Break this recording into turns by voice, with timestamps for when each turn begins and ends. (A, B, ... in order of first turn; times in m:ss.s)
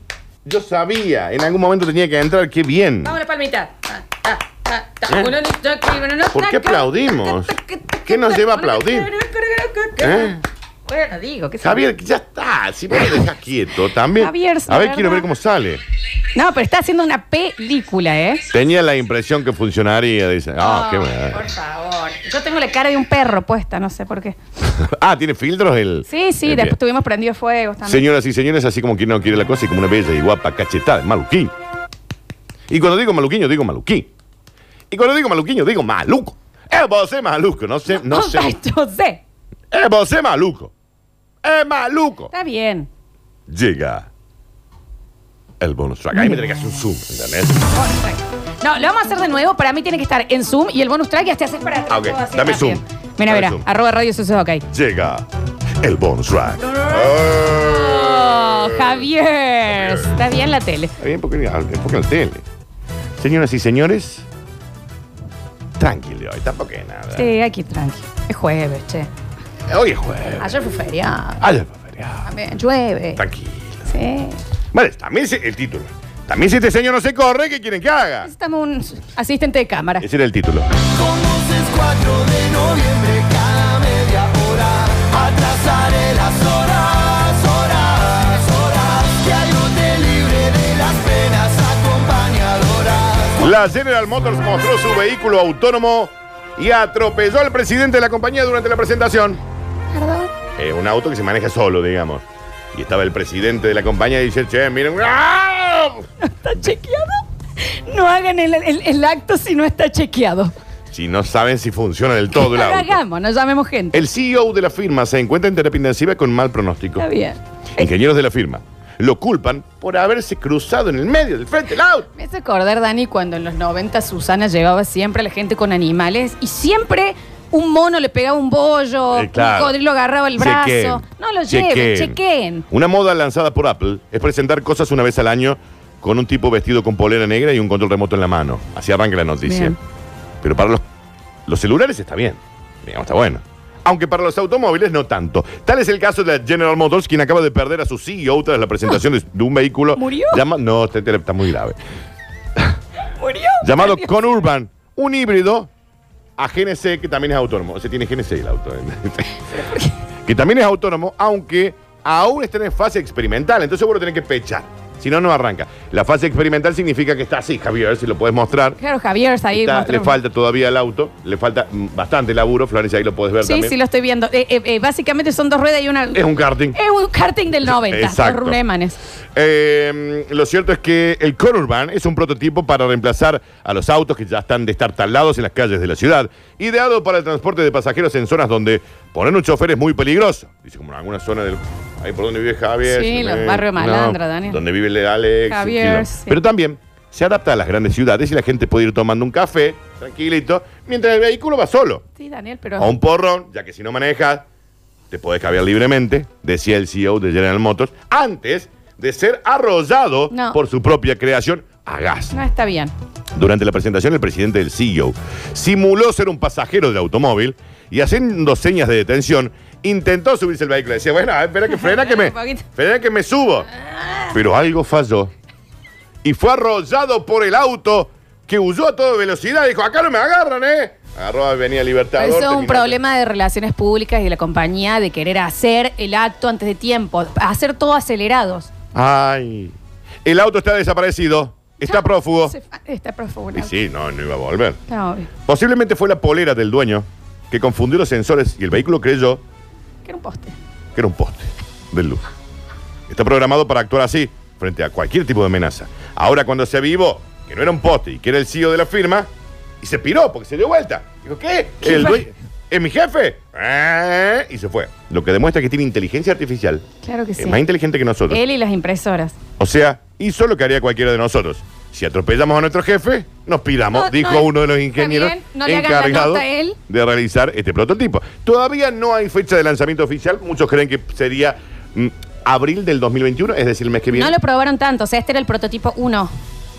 0:00.4-0:03.2 A
0:03.0-0:11.8 B
0:05.1-0:05.4 A
0:06.3-0:07.5 A
0:08.1-0:09.1 A
0:10.0-0:10.4 A
0:11.6-0:15.8 A
0:14.2-0:15.3 B
0:16.3-0:18.4 B
0:18.5-0:21.4 A
0:20.6-0:24.4 B
0:24.7-0:26.8 A
0:26.1-0:28.0 B
0:27.8-0:31.5 A
0:32.7-0:34.1 A
0:34.9-0:38.6 A
0:37.9-0:39.2 B
0:39.7-0:40.7 A
0:41.4-0:42.3 A
0:42.3-0:42.9 B
0:43.5-0:44.1 A
0:45.6-0:47.6 A
0:46.1-0:46.7 B
0:47.7-0:54.6 B
0:51.9-0:53.6 A
0:54.7-0:55.3 A
0:55.8-0:59.1 A
0:56.6-1:00.9 B
0:59.7-1:00.2 A
1:01.0-1:02.4 A
1:03.2-1:04.3 A
1:05.8-1:07.3 A
1:07.1-1:09.1 B
1:09.7-1:10.6 A
1:10.4-1:11.4 B
1:11.4-1:12.3 A
1:12.2-1:13.2 B
1:13.2-1:13.9 A
1:13.9-1:14.4 B
1:14.7-1:18.3 A
1:18.2-1:20.1 B
1:20.0-1:20.7 A
1:21.0-1:33.3 C
1:33.4-1:39.4 A
1:39.9-1:40.3 B
1:40.6-1:46.1 A
1:46.2-1:50.5 B
1:50.9-1:53.0 A
1:52.4-1:54.0 B
1:53.9-1:57.1 A
1:57.0-1:57.8 B
1:57.8-2:02.1 A
2:02.1-2:12.7 B
2:09.1-2:09.8 A
2:10.4-2:12.2 A
2:12.7-2:19.8 A
2:19.4-2:19.8 B
2:20.4-2:20.8 A
2:21.5-2:31.8 A
2:30.0-2:30.4 B
2:33.1-2:34.1 B
2:33.6-2:35.7 A
2:36.4-2:39.4 A
2:39.5-2:40.0 B
2:40.3-2:48.8 A
2:48.8-2:50.2 B
2:49.5-2:53.8 A
2:53.4-2:59.0 B
2:56.2-2:56.8 A
2:57.7-2:58.6 A
2:59.4-3:22.0 A
3:12.8-3:14.6 B
3:15.5-3:16.4 B
3:22.2-3:23.0 B
3:22.8-3:24.4 A
3:25.1-3:32.4 A
3:30.3-3:30.6 B
3:32.3-3:32.9 B
3:33.4-3:43.7 A
3:41.7-3:42.6 B
3:43.8-3:44.3 B
3:44.3-3:45.3 A
3:46.2-3:53.0 A
3:52.2-3:58.7 B
3:58.9-4:02.5 A
4:01.8-4:03.7 B
4:03.6-4:04.8 A
4:04.9-4:05.3 B
4:05.5-4:09.4 A
4:10.0-4:10.6 B
4:11.0-4:12.2 A
4:13.1-4:19.3 A
4:19.8-4:26.8 A
4:21.8-4:22.3 B
4:27.0-4:27.6 B
4:27.4-4:28.4 A
4:28.3-4:29.4 B
4:29.6-4:44.4 A
4:33.9-4:36.8 B
4:44.1-4:46.3 B